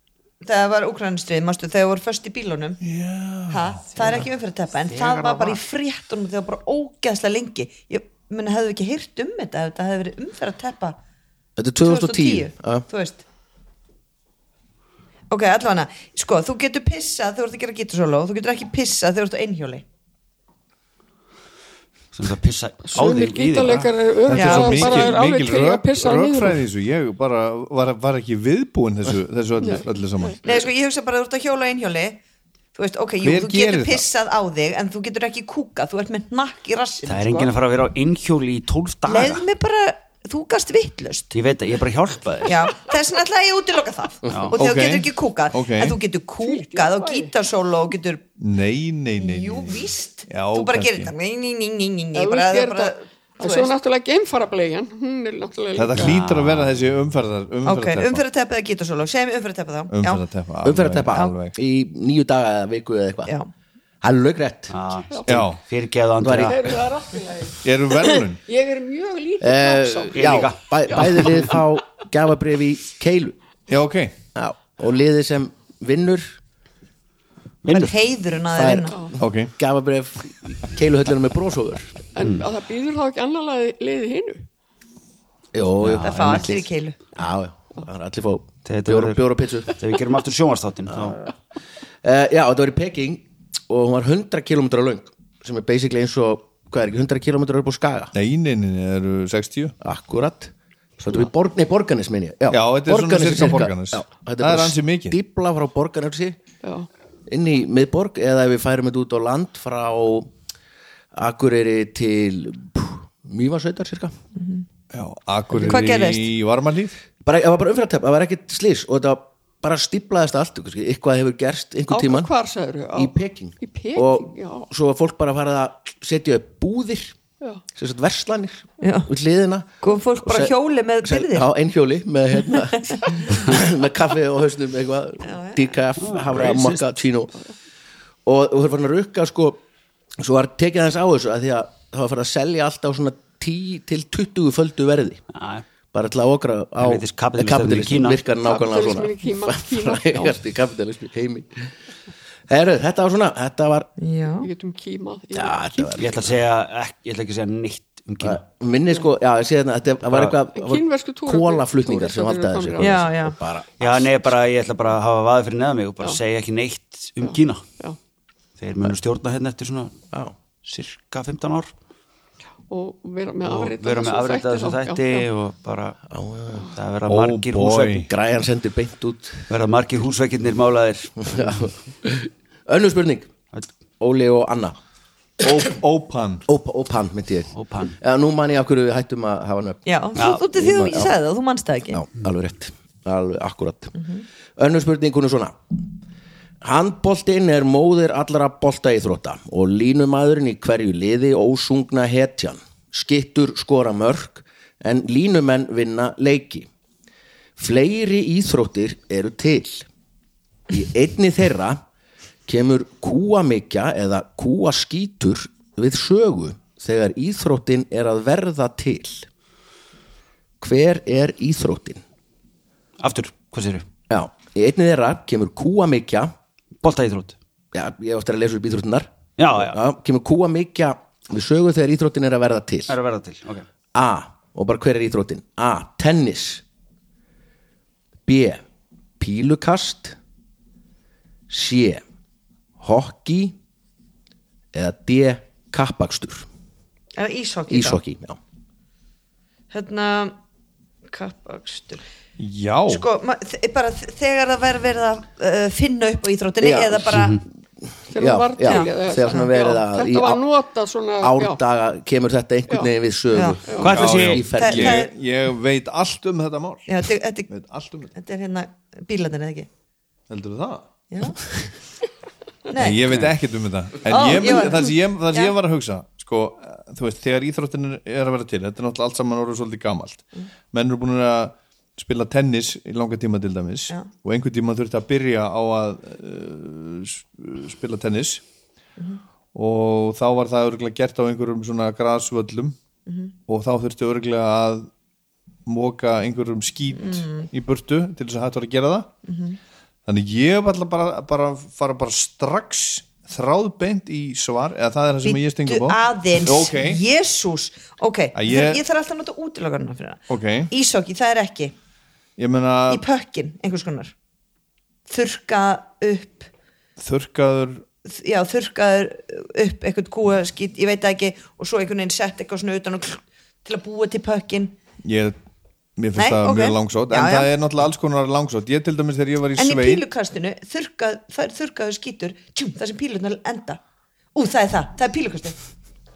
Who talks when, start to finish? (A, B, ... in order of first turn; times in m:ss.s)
0:00.4-0:02.8 A
0:02.8-0:03.8 B
0:03.5-0:11.0 A
0:04.9-0:05.6 C
0:11.6-0:12.8 D
0:11.8-0:13.2 A
0:15.3-0:19.8 A
0:22.1-0:23.9 C
0:22.8-0:26.6 E
0:24.3-0:30.4 B
0:24.3-0:24.9 A
0:29.6-0:30.4 E
0:30.4-0:32.2 A
0:32.7-0:37.5 A
0:33.2-0:34.0 B
0:37.0-0:39.4 C
0:39.1-0:41.3 A
0:41.3-0:42.7 C
0:42.4-0:48.2 A
0:44.3-0:44.6 C
0:44.5-0:46.0 B
0:46.4-0:47.3 E
0:48.4-0:51.1 B
0:49.2-0:53.7 A
0:52.1-0:56.2 E
0:55.7-0:58.2 B
0:55.9-0:56.8 C
0:57.6-1:00.2 A
0:59.9-1:01.6 B
1:00.6-1:03.3 D
1:04.0-1:04.7 D
1:04.7-1:06.6 C
1:05.1-1:05.4 E
1:05.3-1:05.6 B
1:06.2-1:06.8 D
1:06.4-1:11.2 E
1:07.6-1:08.4 B
1:09.4-1:13.4 D
1:10.1-1:11.5 C
1:13.7-1:14.2 B
1:14.3-1:16.3 D
1:17.6-1:17.9 C
1:17.7-1:19.0 A
1:18.6-1:22.0 D
1:19.2-1:19.5 B
1:22.1-1:24.4 E
1:22.2-1:22.4 C
1:25.5-1:29.7 D
1:25.8-1:26.6 C
1:26.0-1:27.0 A
1:28.6-1:31.2 C
1:30.9-1:31.2 D
1:32.0-1:38.1 D
1:38.1-1:39.7 B
1:39.8-1:46.4 D
1:42.5-1:45.2 B
1:46.6-1:46.9 E
1:47.3-1:50.3 D
1:51.1-1:54.1 D
1:54.4-1:54.6 A
1:54.9-1:57.0 B
1:55.5-1:56.3 A
1:57.2-2:02.3 D
2:01.9-2:04.7 E
2:02.9-2:07.2 D
2:07.7-2:10.5 D
2:08.8-2:09.1 A
2:09.8-2:11.5 A
2:11.0-2:17.3 D
2:15.2-2:15.7 A
2:16.0-2:16.8 C
2:18.2-2:19.6 D
2:20.2-2:25.2 D
2:25.3-2:25.6 C
2:25.9-2:31.7 D
2:26.8-2:28.2 C
2:28.4-2:30.4 E
2:32.5-2:33.9 D
2:34.0-2:34.5 A
2:34.4-2:36.0 E
2:35.3-2:36.3 D
2:36.0-2:38.4 C
2:38.2-2:44.1 D
2:40.1-2:40.3 C
2:40.5-2:43.1 E
2:42.8-2:43.4 A
2:43.8-2:47.7 C
2:47.2-2:48.0 E
2:48.6-2:49.9 C
2:50.6-2:51.7 C
2:52.7-2:55.3 E
2:53.4-2:56.0 C
2:56.1-2:56.7 D
2:56.6-2:58.1 C
2:57.1-2:58.1 B
2:58.1-2:59.4 D
2:59.5-3:01.7 C
3:01.2-3:03.3 D
3:04.0-3:04.8 D
3:05.4-3:06.5 B
3:06.5-3:11.1 D
3:07.5-3:08.0 C
3:09.8-3:12.0 A
3:11.9-3:15.6 D
3:16.6-3:26.7 D
3:27.6-3:29.9 D
3:30.7-3:31.8 D
3:32.5-3:39.3 D
3:40.6-3:42.0 D
3:43.0-3:43.8 C
3:44.1-3:46.3 D
3:46.8-3:47.4 C
3:47.7-3:53.0 D
3:49.4-3:49.8 C
3:52.9-3:53.6 C
3:53.9-3:56.6 D
3:58.2-3:58.6 D
3:59.2-4:00.2 D
4:01.5-4:02.0 D
4:02.8-4:03.6 D
4:04.7-4:06.5 D
4:07.2-4:08.0 A
4:07.7-4:08.4 D
4:09.7-4:10.4 A
4:11.1-4:12.0 A
4:12.4-4:13.0 B
4:12.9-4:17.4 A
4:16.6-4:20.4 D
4:17.1-4:17.4 C
4:18.1-4:21.6 E
4:18.6-4:19.5 A
4:21.2-4:25.0 D
4:23.3-4:23.6 A
4:23.7-4:24.0 E
4:23.8-4:24.4 C
4:23.9-4:26.9 B
4:24.5-4:25.1 A
4:26.9-4:27.5 A
4:27.5-4:28.1 B
4:28.1-4:29.7 A
4:30.3-4:30.8 B
4:31.1-4:31.4 A
4:32.7-4:33.2 A
4:32.8-4:48.4 B
4:34.1-4:35.5 A
4:49.5-4:52.8 B
4:53.0-4:53.3 A
4:53.5-4:54.9 B
4:55.7-4:59.1 B
4:57.0-4:57.5 A
4:59.2-4:59.6 A
5:00.0-5:07.0 B
5:05.2-5:11.7 A
5:08.3-5:08.8 B
5:10.3-5:10.7 B
5:12.4-5:13.0 B
5:12.9-5:14.1 A
5:15.1-5:16.5 A
5:17.0-5:17.8 B
5:18.0-5:24.8 A
5:25.0-5:25.4 B
5:26.0-5:30.0 B
5:26.2-5:27.5 A
5:29.6-5:33.8 A
5:34.3-5:35.6 A